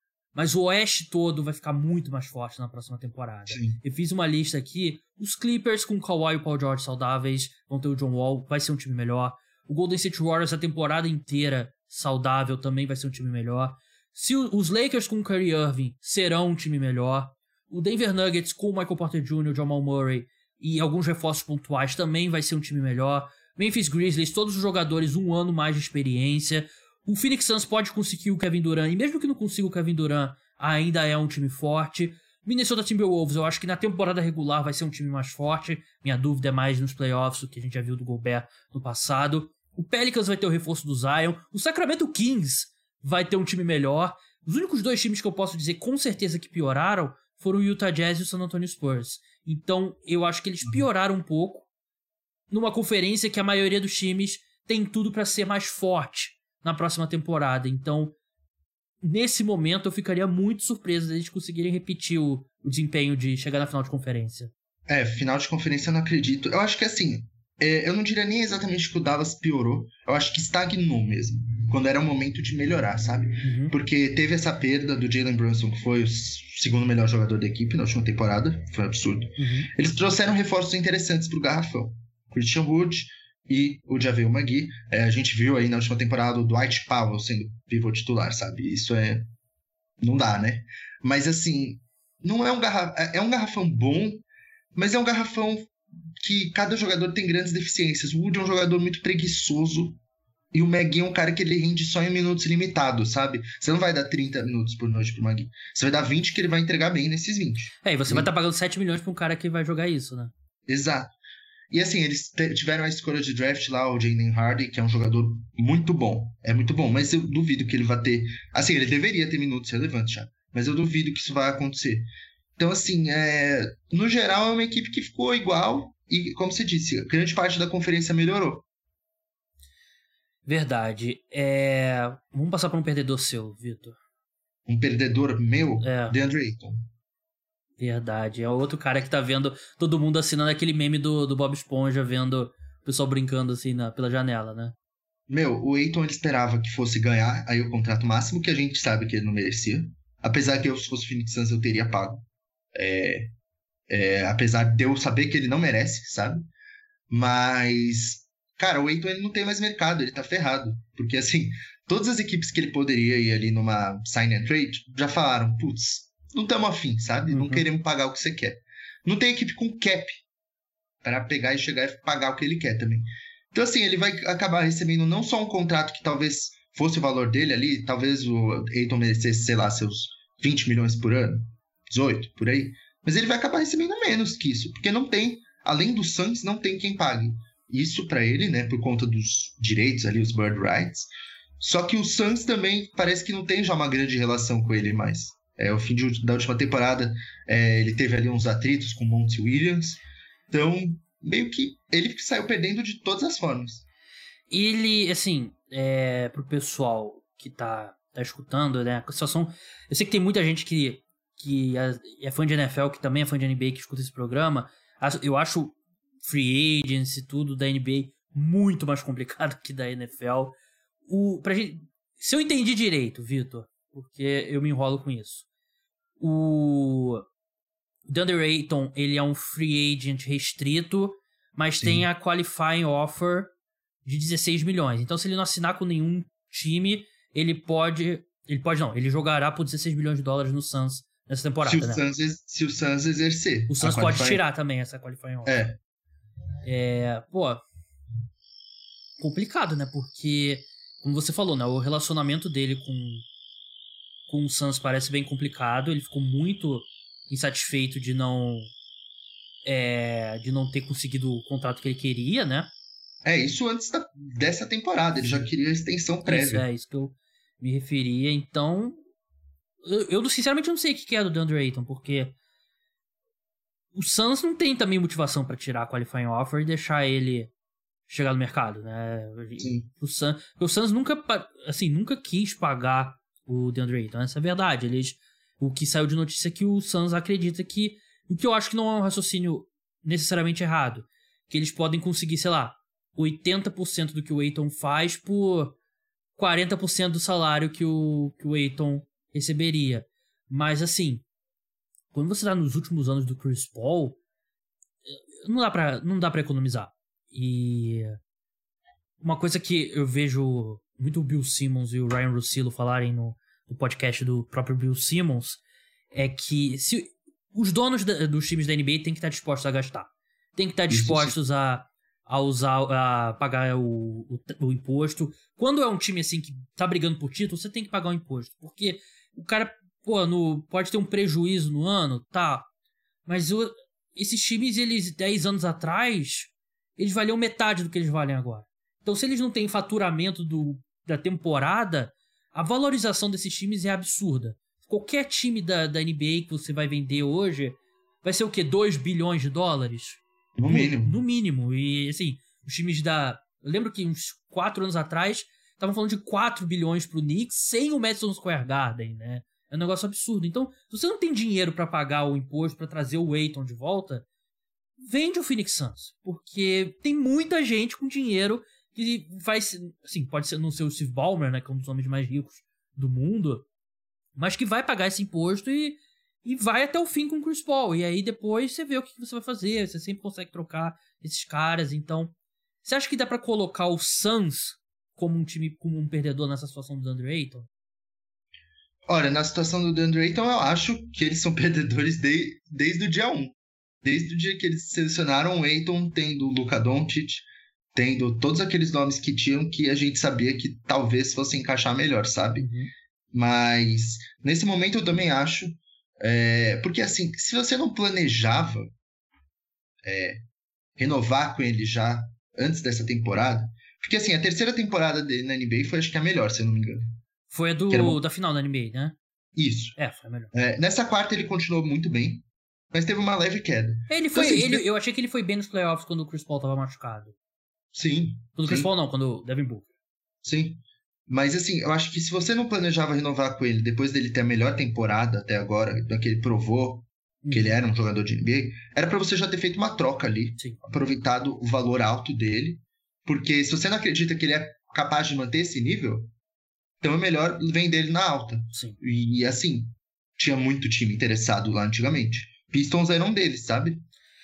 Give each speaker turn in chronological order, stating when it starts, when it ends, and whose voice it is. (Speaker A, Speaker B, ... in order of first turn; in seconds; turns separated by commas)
Speaker A: 0.3-51.7, Speaker B: 3.5-3.8, Speaker A: 52.5-58.1, Speaker A: 59.0-64.5, Speaker B: 64.9-89.3, Speaker A: 73.4-73.7, Speaker A: 79.4-79.7, Speaker B: 90.0-94.2, Speaker B: 94.8-100.0, Speaker B: 100.5-108.3, Speaker A: 107.8-110.3, Speaker B: 110.7-111.1, Speaker B: 111.7-128.7, Speaker A: 130.5-134.0, Speaker B: 134.7-136.9, Speaker A: 135.8-136.2, Speaker A: 137.8-144.8, Speaker B: 145.3-152.2, Speaker B: 152.8-153.3, Speaker B: 153.9-156.5, Speaker B: 157.1-170.2, Speaker A: 167.3-167.7, Speaker B: 171.0-203.9, Speaker A: 204.5-220.6, Speaker A: 221.1-225.5, Speaker A: 226.2-227.2, Speaker A: 228.1-233.5, Speaker A: 234.1-242.0, Speaker B: 241.6-244.4, Speaker A: 243.7-245.6, Speaker B: 245.5-245.8, Speaker A: 246.7-247.6, Speaker A: 249.2-253.3, Speaker A: 254.3-258.7, Speaker A: 259.6-262.7, Speaker B: 263.2-266.6, Speaker A: 265.2-265.5, Speaker A: 266.2-269.0, Speaker A: 269.9-272.3, Speaker A: 273.9-277.5, Speaker A: 278.1-295.8, Speaker B: 279.6-279.9, Speaker A: 296.4-301.2, Speaker A: 302.1-304.2, Speaker A: 305.1-308.2, Speaker A: 309.2-315.6, Speaker A: 316.1-332.7, Speaker B: 320.9-321.3, Speaker A: 333.3-364.3, Speaker B: 350.6-351.2, Speaker A: 365.0-373.7, Speaker A: 374.4-387.7, Speaker B: 389.1-402.7, Speaker A: 402.6-402.9, Speaker B: 403.3-408.9, Speaker B: 410.0-410.4, Speaker B: 411.0-417.0, Speaker A: 417.5-419.2, Speaker B: 417.9-418.2, Speaker B: 419.6-419.9, Speaker A: 420.0-420.5, Speaker B: 420.5-424.8, Speaker A: 424.1-427.4, Speaker B: 427.9-428.9, Speaker A: 428.6-429.9, Speaker B: 430.4-446.3, Speaker A: 437.4-437.7, Speaker B: 447.0-454.0, Speaker A: 448.7-449.0